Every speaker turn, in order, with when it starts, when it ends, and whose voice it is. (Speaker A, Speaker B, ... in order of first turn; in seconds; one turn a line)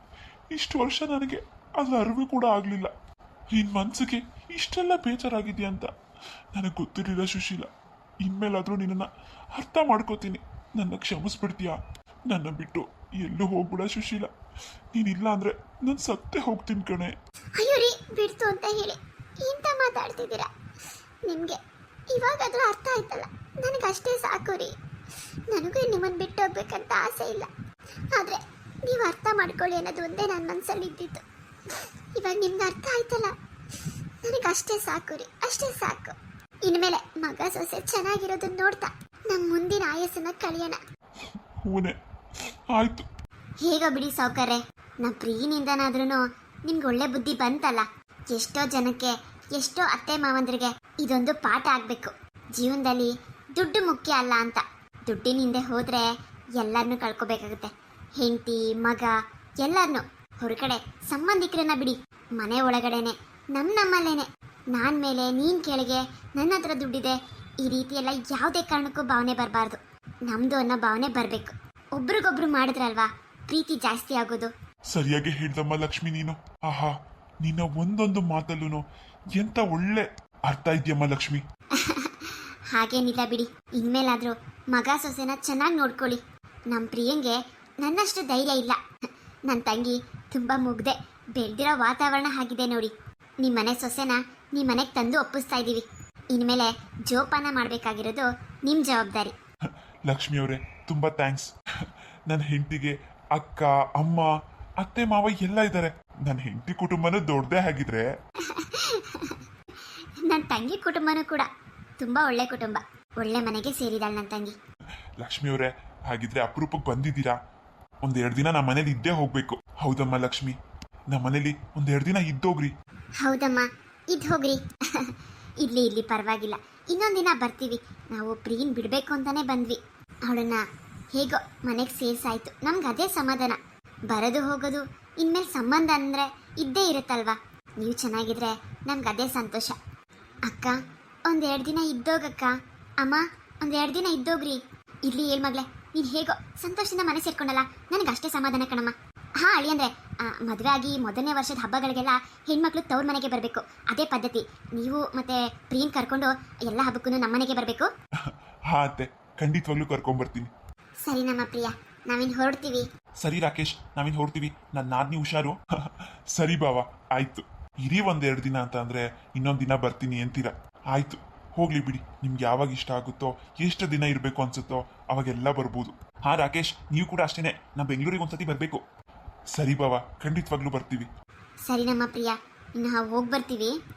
Speaker A: 0.5-2.9
Speaker A: 3.5-5.9
Speaker A: 6.5-7.7
Speaker A: 8.2-11.8
Speaker A: 12.3-14.3
Speaker A: 14.9-17.1
Speaker B: 17.6-20.5
Speaker B: 21.3-21.6
Speaker B: 22.1-24.7
Speaker B: 25.5-27.5
Speaker B: 28.1-33.3
Speaker B: 34.2-40.8
Speaker A: 41.6-42.0
Speaker A: 42.7-43.1
Speaker B: 43.6-56.1
Speaker B: 56.6-74.5
Speaker A: 74.9-78.8
Speaker A: 79.3-81.4
Speaker B: 81.8-88.8
Speaker B: 89.5-99.3
Speaker A: 100.1-104.3
Speaker A: 104.8-108.1
Speaker B: 108.5-109.4
Speaker B: 110.2-111.5
Speaker B: 112.0-114.6
Speaker A: 115.2-117.4
Speaker A: 118.0-120.6
Speaker A: 121.1-122.7
Speaker B: 123.2-133.6
Speaker B: 134.1-139.8
Speaker B: 140.5-157.9
Speaker A: 158.2-160.5
Speaker B: 161.1-162.8
Speaker A: 163.2-178.8
Speaker A: 179.5-181.1
Speaker B: 181.7-183.8